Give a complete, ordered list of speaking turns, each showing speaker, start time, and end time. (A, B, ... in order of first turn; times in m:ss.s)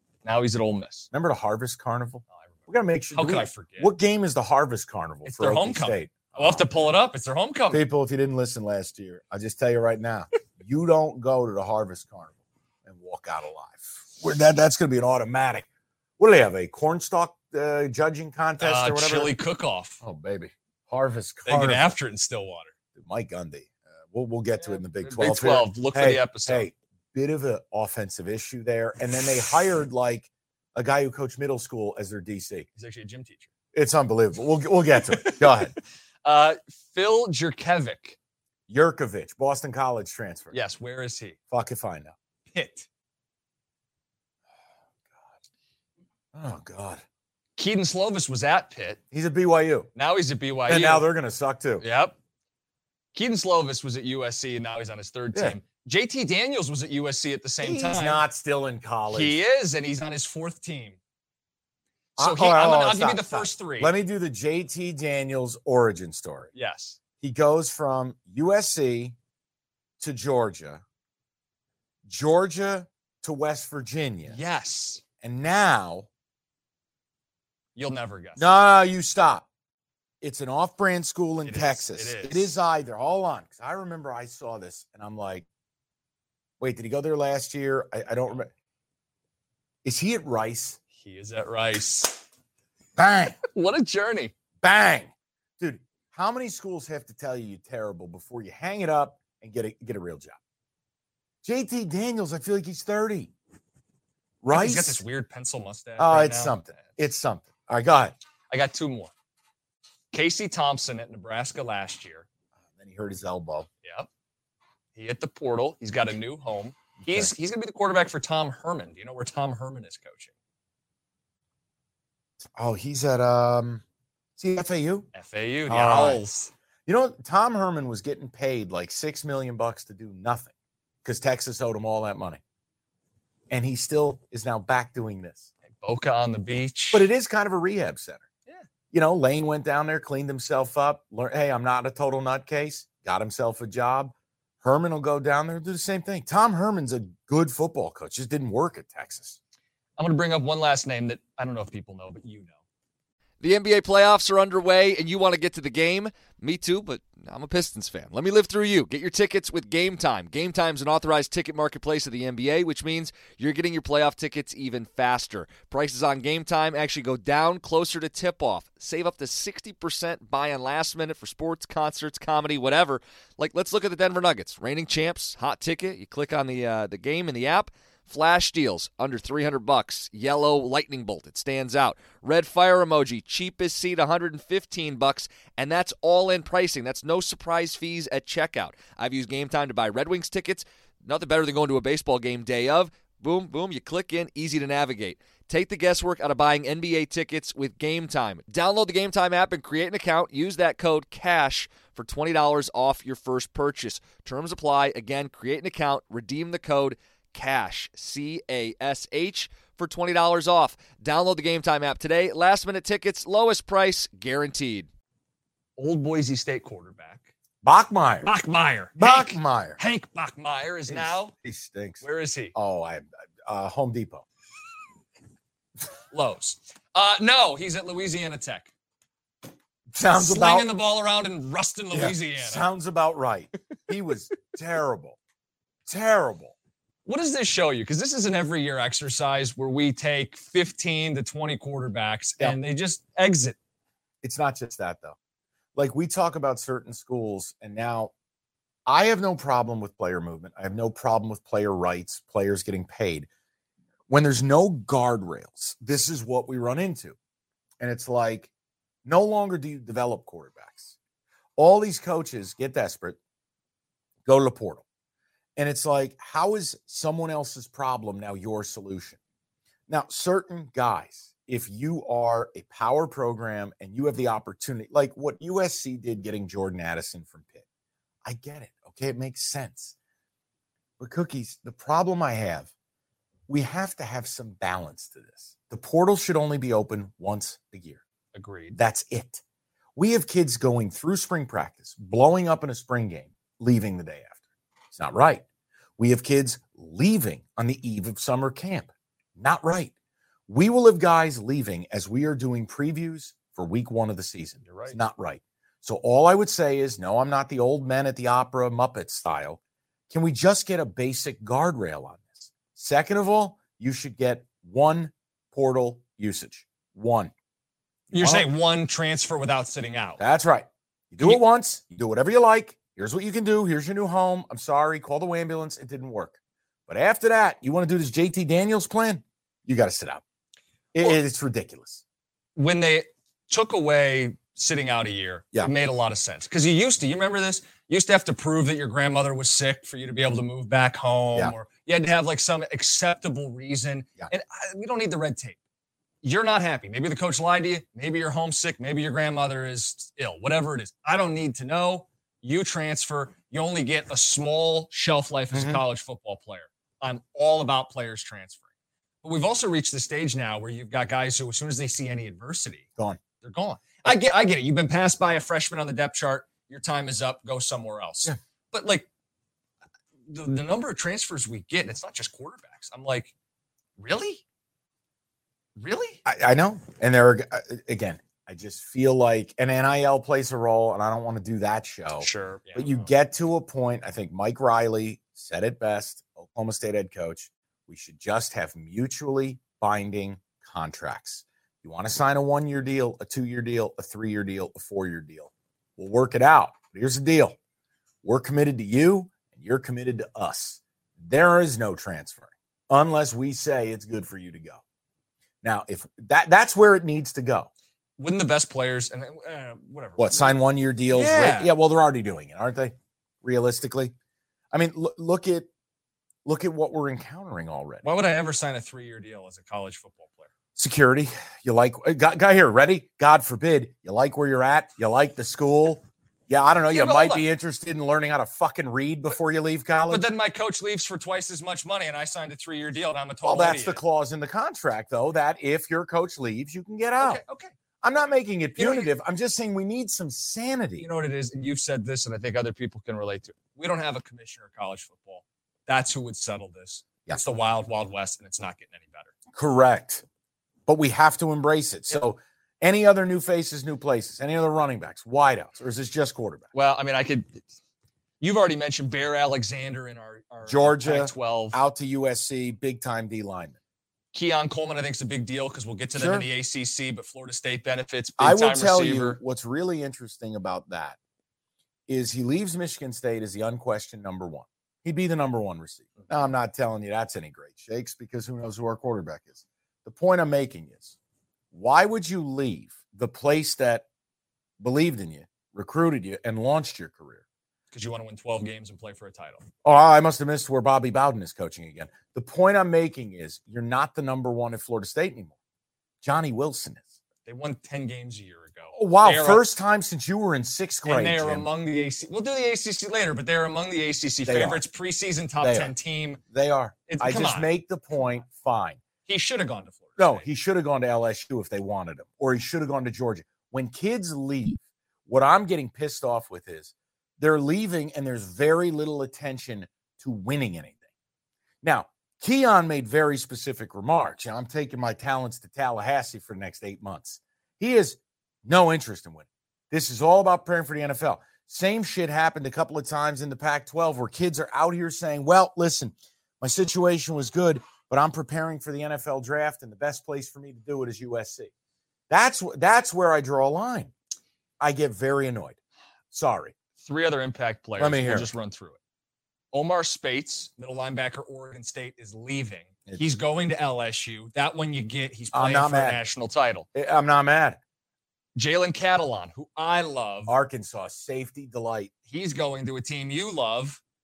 0:00.2-0:01.1 A
0:01.1-0:06.7 B
0:02.4-0:03.9 A
0:05.2-0:07.8 A
0:07.7-0:12.3 B
0:12.8-0:15.7 B
0:16.2-0:19.3 B
0:18.6-0:20.0 A
0:20.0-0:21.9 B
0:21.5-0:22.7 A
0:23.0-0:32.7 B
0:24.6-0:26.7 A
0:32.8-0:33.5 A
0:33.7-0:35.7 B
0:35.1-0:35.7 A
0:36.2-0:38.2 A
0:38.7-0:40.6 B
0:40.5-0:41.4 A
0:41.5-0:42.1 B
0:42.5-0:42.8 A
0:46.3-0:47.0 B
0:47.6-0:49.0 A
0:49.1-0:49.9 B
0:49.9-0:51.1 A
0:50.7-0:51.8 B
0:51.8-0:52.2 A
0:53.1-0:58.2 A
0:57.6-0:59.4 B
0:59.1-1:01.0 A
1:02.2-1:06.5 B
1:02.2-1:03.9 A
1:06.5-1:07.0 A
1:07.2-1:09.1 B
1:10.0-1:10.8 B
1:12.0-1:14.4 B
1:14.3-1:15.0 A
1:15.2-1:16.1 B
1:17.8-1:18.5 A
1:18.4-1:19.5 B
1:20.2-1:25.4 B
1:21.4-1:22.5 A
1:26.6-1:28.5 B
1:29.8-1:30.8 B
1:31.0-1:32.2 A
1:33.0-1:33.4 B
1:33.4-1:34.3 A
1:34.6-1:40.4 B
1:41.4-1:43.3 B
1:44.4-1:45.0 B
1:44.5-1:47.0 A
1:46.0-1:48.1 B
1:48.5-1:49.1 A
1:50.1-1:52.3 A
1:52.8-1:53.7 B
1:53.8-1:54.1 A
1:54.9-2:00.3 A
1:57.0-1:57.3 B
2:02.6-2:03.8 B
2:04.4-2:05.1 B
2:05.1-2:06.5 A
2:05.7-2:06.2 B
2:06.8-2:10.5 B
2:11.0-2:12.4 B
2:13.5-2:15.5 B
2:15.8-2:17.1 A
2:16.9-2:18.3 B
2:18.9-2:29.4 B
2:30.0-2:32.5 A
2:33.4-3:34.9 C
3:35.8-3:37.3 A
3:37.6-3:38.3 B
3:38.2-3:41.3 A
3:39.0-3:39.8 B
3:40.9-3:42.0 B
3:42.0-3:42.5 A
3:42.5-3:44.2 B
3:46.1-3:48.7 A
3:49.9-3:50.7 B
3:50.1-3:52.7 A
3:51.9-3:55.2 B
3:55.9-3:56.6 B
3:57.0-4:03.6 A
4:04.2-4:05.2 B
4:05.8-4:08.1 B
4:08.9-4:13.3 B
4:14.1-4:17.2 B
4:17.8-4:18.5 B
4:19.0-4:21.0 B
4:21.6-4:23.2 B
4:24.2-4:24.8 B
4:25.6-4:29.2 B
4:29.9-4:37.6 B
4:38.2-4:39.9 B
4:41.0-4:42.7 B
4:43.5-4:48.0 B
4:48.3-4:48.8 A
4:48.7-4:49.4 B
4:50.0-4:54.4 B
4:54.9-4:55.4 B
4:56.0-4:59.9 B
5:00.5-5:17.3 B
5:04.6-5:05.0 A
5:18.1-5:20.2 A
5:18.1-5:18.5 B
5:20.2-5:30.2 B
5:30.9-5:32.0 B
5:32.6-5:45.6 A
5:46.2-5:58.6 A
5:55.5-5:55.8 B
5:59.2-6:02.9 A
6:03.4-6:09.1 A
6:10.3-6:13.3 A
6:14.0-6:14.4 A
6:15.8-6:16.2 A
6:16.2-6:37.6 B
6:22.2-6:23.1 A
6:38.2-6:44.8 B
6:45.6-6:47.7 B
6:48.2-6:51.7 A
6:50.2-6:54.1 B
6:54.7-6:55.7 B
6:56.4-6:58.0 B
6:58.0-7:00.5 A
7:00.8-7:10.3 B
7:06.9-7:07.5 A
7:10.1-7:14.0 A
7:13.4-7:17.4 B
7:17.2-7:17.7 A
7:18.0-7:21.1 B
7:18.8-7:19.1 A
7:21.0-7:29.3 A
7:29.5-7:30.2 B
7:30.9-7:36.7 B
7:36.7-7:37.6 A
7:38.4-7:41.8 A
7:40.6-7:43.8 B
7:44.3-7:49.4 A
7:46.1-7:46.5 B
7:48.4-7:51.2 B
7:52.1-8:01.2 B
8:01.7-8:04.0 B
8:04.8-8:07.4 B
8:07.9-8:09.6 A
8:09.8-8:15.5 B
8:16.2-8:17.1 B
8:17.4-8:19.7 A
8:18.9-8:21.7 B
8:21.0-8:26.4 A
8:24.4-8:24.8 B
8:25.6-8:25.9 B
8:26.5-8:29.0 B
8:27.1-8:27.7 A
8:29.2-8:30.4 A
8:30.2-8:41.0 B
8:41.8-9:01.7 B
9:02.3-9:04.1 B
9:04.8-9:05.8 B
9:06.3-9:06.7 B
9:07.0-9:09.0 A
9:08.0-9:08.5 B
9:09.7-9:16.9 A
9:15.5-9:16.2 B
9:16.9-9:17.8 B
9:18.6-9:20.5 A
9:20.4-9:22.1 B
9:22.3-9:24.0 A